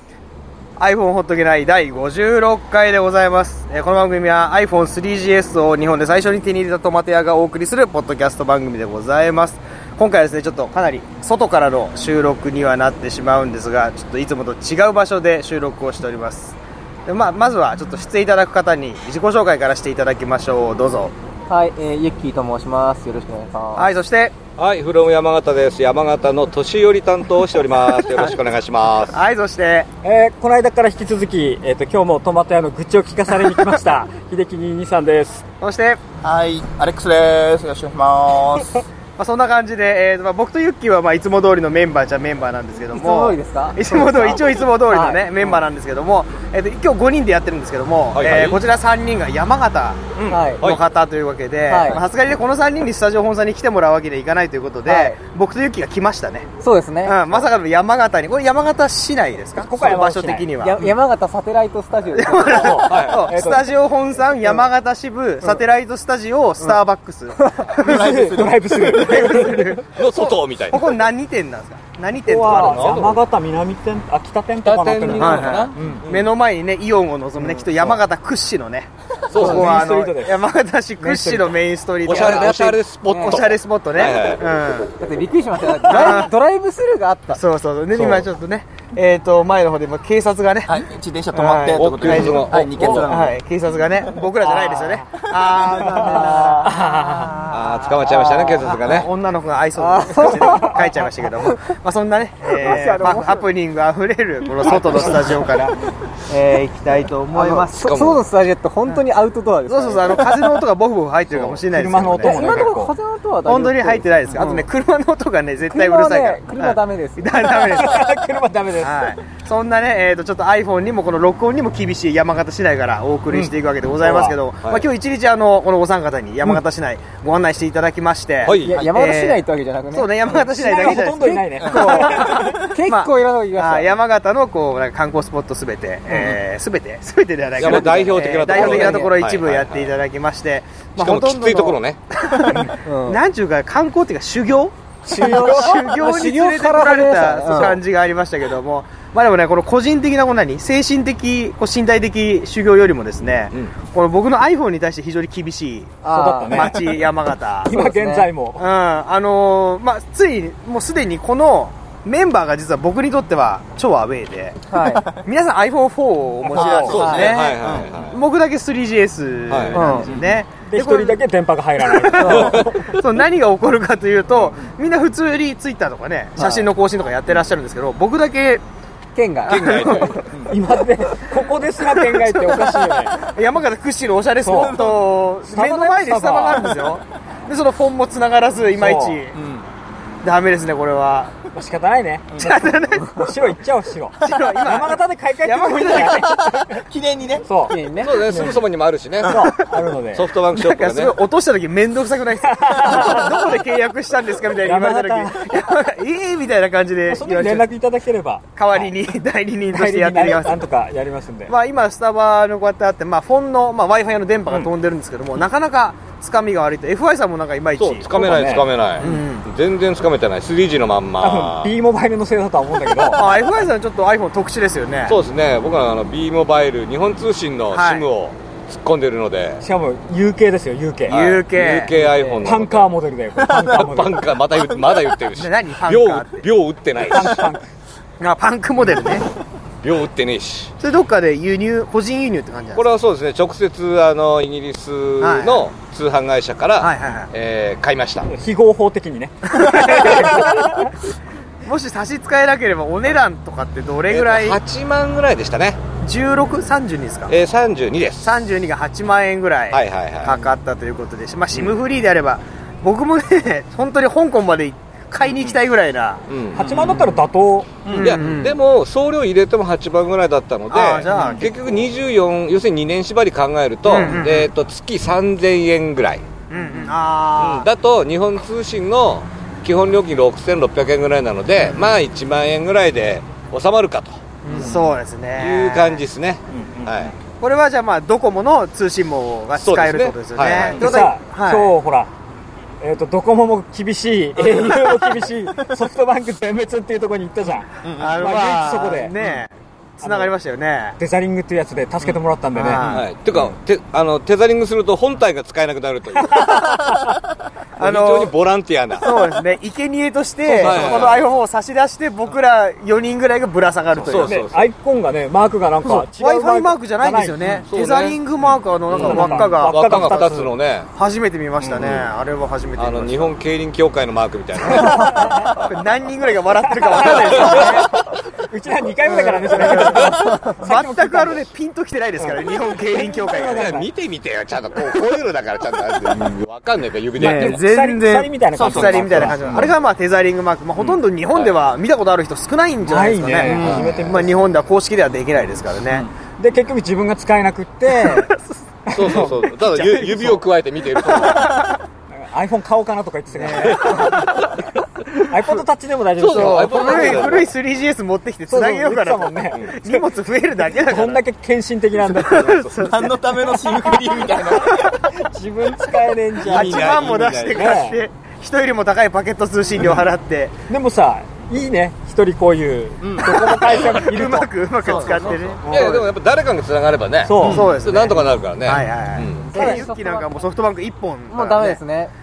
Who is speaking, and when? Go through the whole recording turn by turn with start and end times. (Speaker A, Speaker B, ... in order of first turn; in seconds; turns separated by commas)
Speaker A: 0.8-21.1, Speaker B: 21.5-23.9, Speaker A: 23.8-24.4, Speaker C: 24.6-29.2, Speaker A: 29.1-29.9, Speaker D: 30.0-35.4, Speaker A: 35.6-36.0, Speaker E: 36.2-38.8, Speaker A: 39.2-56.5, Speaker B: 42.9-45.3, Speaker C: 48.1-48.6, Speaker C: 50.2-50.8, Speaker B: 50.3-50.6, Speaker B: 51.7-52.0, Speaker B: 54.9-55.2, Speaker B: 56.6-57.5, Speaker A: 57.0-60.9, Speaker D: 59.6-60.5, Speaker B: 60.6-63.0, Speaker A: 62.1-68.1, Speaker D: 62.5-63.7, Speaker C: 62.9-63.3, Speaker B: 67.5-67.7, Speaker E: 67.8-69.0, Speaker D: 67.8-69.8, Speaker A: 68.8-73.1, Speaker C: 69.9-70.9, Speaker D: 72.2-76.0, Speaker C: 72.5-73.2, Speaker C: 74.6-76.3, Speaker A: 75.2-84.9, Speaker C: 77.5-78.0, Speaker C: 79.3-79.9, Speaker D: 79.4-80.4, Speaker D: 81.0-81.5, Speaker C: 82.0-84.4, Speaker B: 82.2-83.5, Speaker B: 85.0-87.4, Speaker A: 85.9-86.3, Speaker A: 87.3-90.8, Speaker C: 88.0-88.3, Speaker E: 90.7-93.4, Speaker A: 91.3-105.8, Speaker C: 91.8-93.0, Speaker E: 95.1-95.9, Speaker D: 95.8-97.3, Speaker B: 96.0-96.8, Speaker C: 97.5-99.1, Speaker B: 99.8-101.5, Speaker B: 102.5-103.5, Speaker A: 106.3-108.0, Speaker B: 107.3-110.6, Speaker C: 107.8-108.2, Speaker A: 109.7-112.7, Speaker C: 111.3-111.6, Speaker D: 111.7-113.0, Speaker B: 112.2-114.7, Speaker A: 113.5-118.1, Speaker B: 115.7-117.5, Speaker D: 117.7-119.1, Speaker A: 118.8-157.7, Speaker D: 123.3-124.3, Speaker C: 128.4-128.9, Speaker B: 128.5-134.0, Speaker D: 130.5-132.6, Speaker B: 136.1-136.4, Speaker C: 137.6-139.9, Speaker B: 137.6-139.2, Speaker C: 141.0-142.0, Speaker B: 142.8-143.2, Speaker D: 145.1-145.8, Speaker B: 145.1-147.8, Speaker B: 156.0-156.8, Speaker D: 156.1-157.0, Speaker D: 157.7-158.7, Speaker B: 157.7-158.3, Speaker A: 158.6-164.7, Speaker B: 164.7-165.1, Speaker E: 164.9-165.2, Speaker A: 165.2-171.2, Speaker D: 166.4-167.0, Speaker E: 166.6-168.0, Speaker C: 166.9-168.2, Speaker B: 167.0-167.4, Speaker C: 169.5-169.8, Speaker B: 169.7-170.1, Speaker D: 170.7-172.9, Speaker A: 171.9-178.6, Speaker B: 172.2-172.7, Speaker C: 172.2-172.6, Speaker B: 176.4-176.7, Speaker B: 179.2-180.2, Speaker C: 179.4-180.2, Speaker A: 179.5-180.2, Speaker D: 180.5-183.2, Speaker A: 182.0-189.4, Speaker D: 184.4-184.8, Speaker E: 184.5-185.1, Speaker D: 185.5-186.7, Speaker D: 188.8-189.2, Speaker E: 189.3-189.6, Speaker A: 190.2-191.3, Speaker D: 191.5-196.7, Speaker A: 192.4-193.3, Speaker A: 194.2-196.4, Speaker E: 196.7-197.5, Speaker D: 197.4-200.3, Speaker B: 197.7-198.1, Speaker C: 198.0-199.5, Speaker C: 200.1-201.2, Speaker A: 200.5-207.7, Speaker D: 202.6-203.3, Speaker D: 204.6-205.4, Speaker D: 207.1-208.9, Speaker A: 208.6-210.6, Speaker D: 209.7-211.5, Speaker A: 211.5-218.1, Speaker C: 217.8-221.7, Speaker D: 218.1-219.1, Speaker A: 219.0-219.4, Speaker D: 221.2-223.3, Speaker A: 223.1-225.2, Speaker C: 225.1-229.6, Speaker A: 227.7-228.1, Speaker D: 229.6-231.2, Speaker A: 231.1-232.1, Speaker C: 231.1-232.9, Speaker B: 231.9-232.4, Speaker D: 232.4-234.2, Speaker C: 233.7-237.5, Speaker A: 235.3-236.5, Speaker D: 237.1-237.7, Speaker A: 238.2-239.3, Speaker C: 239.8-240.7, Speaker A: 240.8-242.9, Speaker C: 242.8-248.3, Speaker A: 245.2-245.7, Speaker A: 246.8-247.3, Speaker D: 248.3-250.9, Speaker A: 249.6-250.2, Speaker A: 251.6-254.6, Speaker C: 254.1-255.8, Speaker A: 256.0-257.3, Speaker C: 257.3-258.3, Speaker A: 258.2-266.2, Speaker C: 259.7-260.4, Speaker C: 266.3-267.0, Speaker D: 266.6-267.8, Speaker E: 267.9-268.2, Speaker A: 267.9-268.6, Speaker C: 267.9-276.2, Speaker A: 270.7-271.8, Speaker D: 271.2-271.4, Speaker A: 273.9-274.5, Speaker A: 276.5-277.7, Speaker C: 277.4-287.1, Speaker A: 284.4-286.0, Speaker D: 286.5-286.9, Speaker A: 287.4-291.7, Speaker C: 289.6-290.8, Speaker D: 290.8-292.1, Speaker D: 292.8-299.1, Speaker E: 297.8-298.2, Speaker A: 298.0-301.0, Speaker D: 300.0-300.3, Speaker D: 301.0-302.9, Speaker A: 302.6-303.1, Speaker C: 302.8-306.7, Speaker D: 306.3-306.8, Speaker A: 307.8-308.3, Speaker C: 307.8-309.3, Speaker A: 309.0-314.4, Speaker D: 310.5-311.0, Speaker C: 310.5-311.2, Speaker C: 314.0-314.7, Speaker D: 314.1-317.6, Speaker A: 316.1-320.1, Speaker C: 317.7-320.9, Speaker D: 319.0-320.5, Speaker A: 321.0-323.4, Speaker C: 321.8-322.1, Speaker C: 322.8-325.8, Speaker A: 324.8-328.0, Speaker D: 325.0-325.4, Speaker D: 326.7-327.9, Speaker C: 327.0-327.8, Speaker D: 328.5-331.5, Speaker A: 329.1-333.7, Speaker C: 329.8-330.3, Speaker D: 332.2-333.9, Speaker C: 333.6-337.6, Speaker A: 337.2-346.1, Speaker D: 337.2-339.7, Speaker E: 338.5-339.7, Speaker C: 341.3-341.6, Speaker D: 342.9-344.2, Speaker E: 343.5-343.9, Speaker C: 343.5-344.4, Speaker D: 346.4-348.3, Speaker A: 347.9-348.5, Speaker D: 348.9-350.4, Speaker C: 348.9-351.6, Speaker A: 351.2-351.7, Speaker D: 352.2-354.4, Speaker A: 353.3-354.5, Speaker C: 353.8-354.1, Speaker D: 355.2-357.4, Speaker C: 356.2-357.6, Speaker A: 356.2-361.2, Speaker D: 358.5-360.1, Speaker D: 360.7-362.7, Speaker A: 362.0-364.1, Speaker E: 362.8-364.8, Speaker D: 364.8-368.0, Speaker A: 366.4-370.5, Speaker C: 366.5-367.9, Speaker D: 370.7-374.5, Speaker E: 373.0-373.8, Speaker A: 373.6-376.1, Speaker E: 374.9-375.4, Speaker D: 375.6-376.0, Speaker C: 375.7-379.5, Speaker D: 377.3-377.6, Speaker A: 377.4-381.8, Speaker B: 379.4-380.3, Speaker D: 379.6-379.8, Speaker B: 381.3-382.1